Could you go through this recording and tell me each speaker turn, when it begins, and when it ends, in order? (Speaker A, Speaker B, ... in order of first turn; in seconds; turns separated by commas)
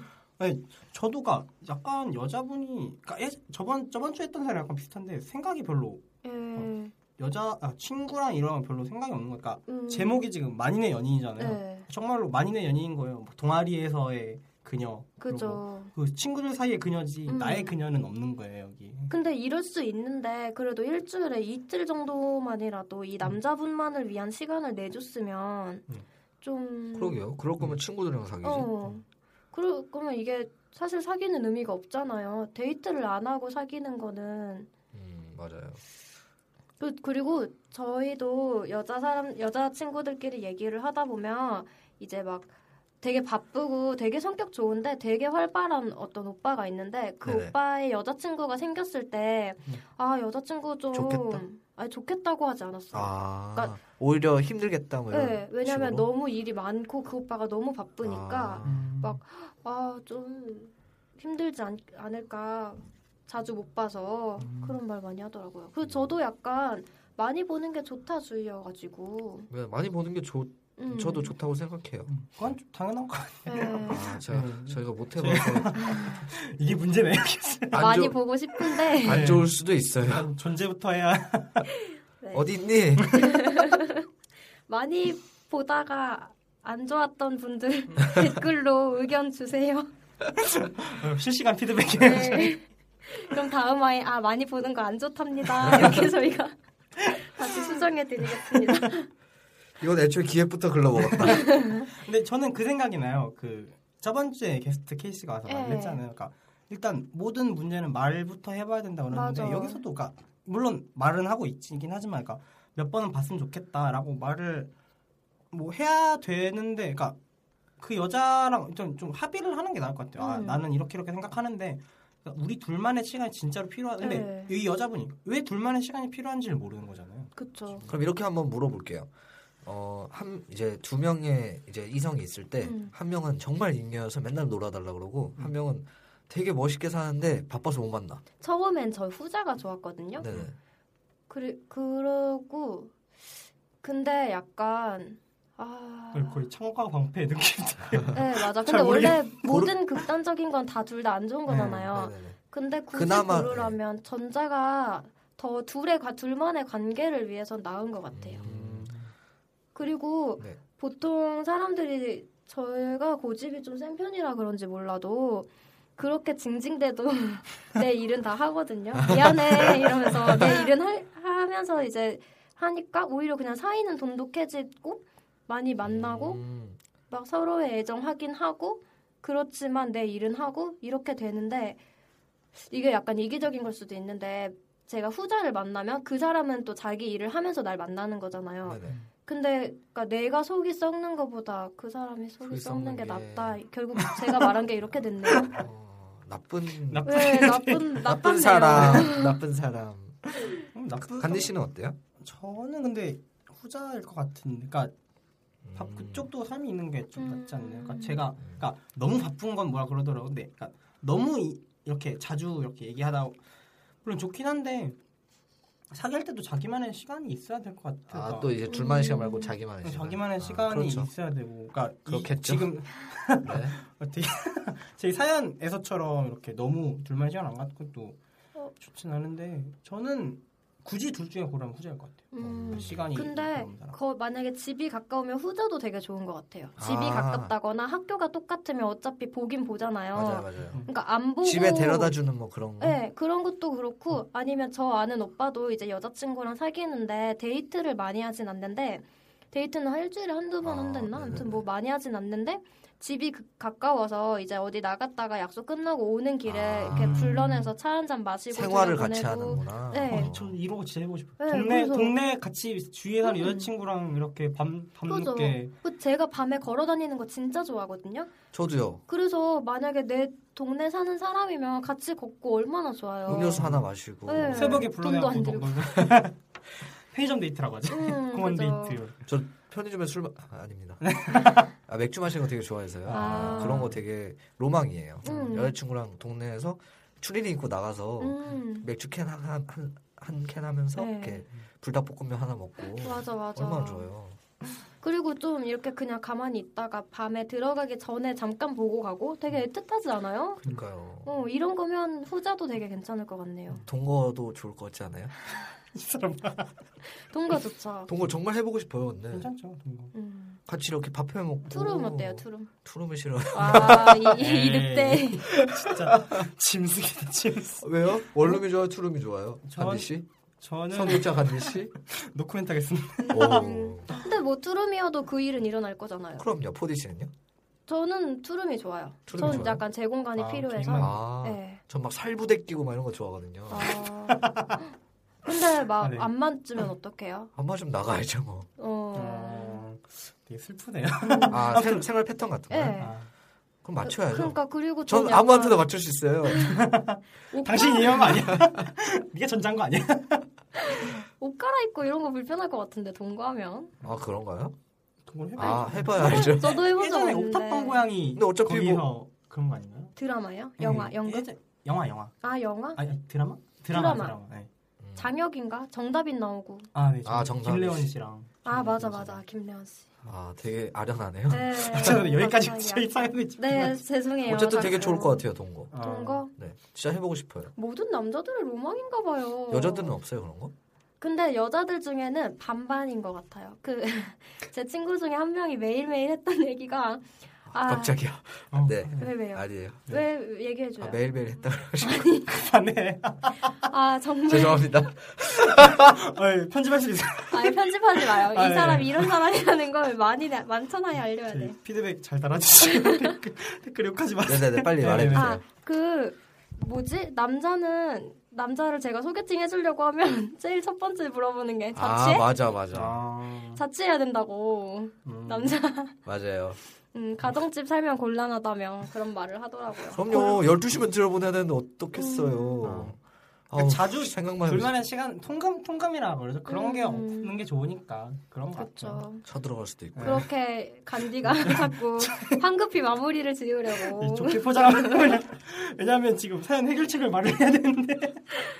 Speaker A: 0.4-19.1, Speaker B: 6.2-6.9, Speaker B: 9.7-10.3, Speaker B: 11.4-11.9, Speaker B: 15.2-15.9, Speaker B: 17.3-17.7, Speaker B: 19.1-25.9, Speaker B: 26.4-27.2, Speaker C: 26.9-28.8, Speaker B: 28.4-34.7, Speaker C: 34.9-35.8, Speaker B: 36.8-42.5, Speaker B: 43.0-53.8, Speaker C: 47.2-47.5, Speaker C: 50.9-51.4, Speaker C: 52.9-56.1, Speaker B: 55.1-69.5, Speaker C: 58.0-58.9, Speaker A: 58.6-59.2, Speaker A: 64.4-64.8, Speaker C: 65.8-66.1, Speaker C: 69.5-72.5, Speaker B: 70.8-71.3, Speaker A: 72.1-78.0, Speaker B: 73.5-74.1, Speaker C: 73.9-75.8, Speaker B: 75.8-76.2, Speaker C: 77.7-78.2, Speaker B: 77.7-79.3, Speaker A: 79.0-79.5, Speaker C: 79.0-80.3, Speaker A: 80.1-81.7, Speaker B: 82.2-82.5, Speaker C: 82.3-83.3, Speaker B: 83.0-84.1, Speaker B: 84.7-89.9, Speaker A: 90.5-92.6, Speaker B: 92.0-96.5, Speaker B: 97.2-99.1, Speaker A: 97.4-97.7, Speaker C: 99.8-101.6, Speaker A: 101.2-114.7, Speaker B: 101.4-101.8, Speaker B: 105.5-106.0, Speaker B: 109.1-109.8, Speaker A: 115.5-117.2, Speaker A: 117.8-127.9, Speaker B: 120.2-120.6, Speaker B: 124.0-124.5, Speaker B: 127.4-127.8, Speaker C: 127.9-129.1, Speaker C: 129.6-138.2, Speaker B: 132.6-132.9, Speaker B: 138.4-140.3, Speaker C: 140.2-140.6, Speaker B: 141.3-142.9, Speaker B: 143.8-146.5, Speaker A: 146.1-149.8, Speaker B: 148.1-158.4, Speaker A: 151.5-151.8, Speaker C: 151.6-152.4, Speaker C: 152.9-153.8, Speaker C: 158.1-158.9, Speaker A: 158.4-159.1, Speaker B: 159.8-176.4, Speaker C: 168.9-170.5, Speaker C: 175.8-176.8, Speaker B: 177.1-181.8, Speaker B: 182.7-195.5, Speaker C: 188.6-189.0, Speaker C: 192.4-193.6, Speaker C: 195.3-197.4, Speaker A: 196.9-198.0, Speaker B: 197.1-199.4, Speaker C: 198.0-200.3, Speaker A: 198.7-199.1, Speaker A: 200.7-201.5, Speaker C: 201.2-202.0, Speaker A: 202.2-204.9, Speaker C: 205.7-206.3, Speaker A: 205.8-213.4, Speaker B: 207.2-208.2, Speaker A: 214.0-215.0, Speaker A: 215.9-218.6, Speaker C: 218.1-221.1, Speaker B: 218.7-219.6, Speaker A: 219.8-228.2, Speaker C: 222.1-222.8, Speaker C: 223.4-223.8, Speaker A: 228.8-234.0, Speaker B: 232.3-242.2, Speaker C: 232.4-233.2, Speaker C: 236.8-237.5, Speaker C: 240.1-240.8, Speaker C: 241.4-243.0, Speaker B: 242.8-260.3, Speaker C: 250.6-251.6, Speaker C: 256.4-257.4, Speaker A: 256.9-257.7, Speaker C: 258.5-260.6, Speaker A: 260.1-265.7, Speaker B: 261.4-262.1, Speaker B: 263.2-263.7, Speaker B: 265.1-268.3, Speaker C: 268.5-269.0, Speaker B: 269.1-273.7, Speaker C: 273.3-274.9, Speaker A: 273.3-273.9, Speaker B: 274.3-276.0, Speaker A: 274.5-276.4, Speaker A: 277.1-279.3, Speaker B: 277.9-279.0, Speaker C: 279.3-294.4, Speaker A: 281.0-281.7, Speaker A: 283.1-284.0, Speaker B: 283.1-283.9, Speaker B: 285.2-285.8, Speaker A: 285.3-285.6, Speaker B: 288.2-288.9, Speaker B: 291.0-291.4, Speaker B: 293.0-294.1, Speaker B: 295.0-300.6, Speaker C: 300.6-301.3, Speaker B: 301.2-303.8, Speaker C: 303.9-305.3, Speaker A: 305.9-306.8, Speaker B: 307.3-308.1, Speaker C: 308.1-309.5, Speaker A: 309.3-310.1, Speaker B: 310.1-310.6, Speaker C: 310.7-314.4, Speaker B: 311.7-312.7, Speaker B: 313.5-315.5, Speaker A: 314.3-318.6, Speaker C: 315.6-316.4, Speaker C: 317.8-320.3, Speaker A: 319.7-320.1, Speaker A: 320.6-324.2, Speaker C: 320.9-321.9, Speaker B: 323.2-326.5, Speaker C: 323.3-324.1, Speaker C: 326.4-327.3, Speaker B: 327.9-331.8, Speaker C: 329.3-329.8, Speaker A: 329.4-329.8, Speaker A: 330.4-331.2, Speaker C: 330.9-333.9, Speaker B: 333.7-334.5, Speaker A: 334.3-334.8, Speaker B: 335.4-337.5, Speaker A: 336.0-336.3, Speaker C: 337.6-338.7, Speaker B: 338.8-339.8, Speaker A: 339.1-342.1, Speaker B: 341.3-341.6, Speaker C: 341.5-343.0, Speaker B: 342.7-343.1, Speaker A: 343.0-343.3, Speaker C: 343.8-346.9, Speaker B: 344.0-345.9, Speaker A: 346.6-350.5, Speaker B: 347.5-348.4, Speaker B: 350.8-353.9, Speaker C: 354.0-354.8, Speaker A: 355.3-360.1, Speaker C: 355.6-356.9, Speaker B: 355.6-358.1, Speaker C: 358.3-359.1, Speaker B: 360.2-361.5, Speaker A: 360.8-362.4, Speaker B: 362.4-363.0, Speaker A: 363.0-364.7, Speaker B: 363.9-364.4, Speaker C: 365.0-365.3, Speaker B: 365.2-366.9, Speaker A: 366.9-369.4, Speaker C: 367.2-368.1, Speaker B: 368.6-370.1, Speaker C: 370.2-372.2, Speaker B: 371.5-375.4, Speaker A: 371.8-374.0, Speaker C: 374.4-377.7, Speaker A: 375.9-376.4, Speaker B: 375.9-376.5, Speaker B: 377.8-380.2, Speaker C: 379.7-380.7, Speaker B: 381.2-388.2, Speaker C: 387.7-390.1, Speaker A: 388.7-389.3, Speaker B: 389.2-391.2, Speaker C: 391.0-392.3, Speaker B: 392.0-392.5, Speaker A: 392.5-393.7, Speaker B: 393.8-395.0, Speaker C: 394.5-396.2, Speaker A: 395.7-399.4, Speaker B: 397.5-401.8, Speaker A: 401.5-405.6, Speaker C: 404.4-405.6, Speaker B: 405.3-412.5, Speaker C: 411.9-413.2, Speaker A: 412.9-413.8, Speaker B: 413.7-416.1, Speaker A: 415.3-415.8, Speaker C: 416.2-416.8, Speaker B: 417.1-420.6, Speaker C: 420.1-423.2, Speaker B: 422.2-422.9, Speaker A: 422.8-423.2, Speaker C: 423.7-425.0, Speaker A: 423.7-429.2, Speaker B: 426.7-427.6, Speaker B: 428.8-429.4, Speaker C: 429.4-430.5, Speaker A: 430.1-430.5, Speaker B: 430.2-435.4, Speaker A: 431.4-432.6, Speaker A: 434.0-438.5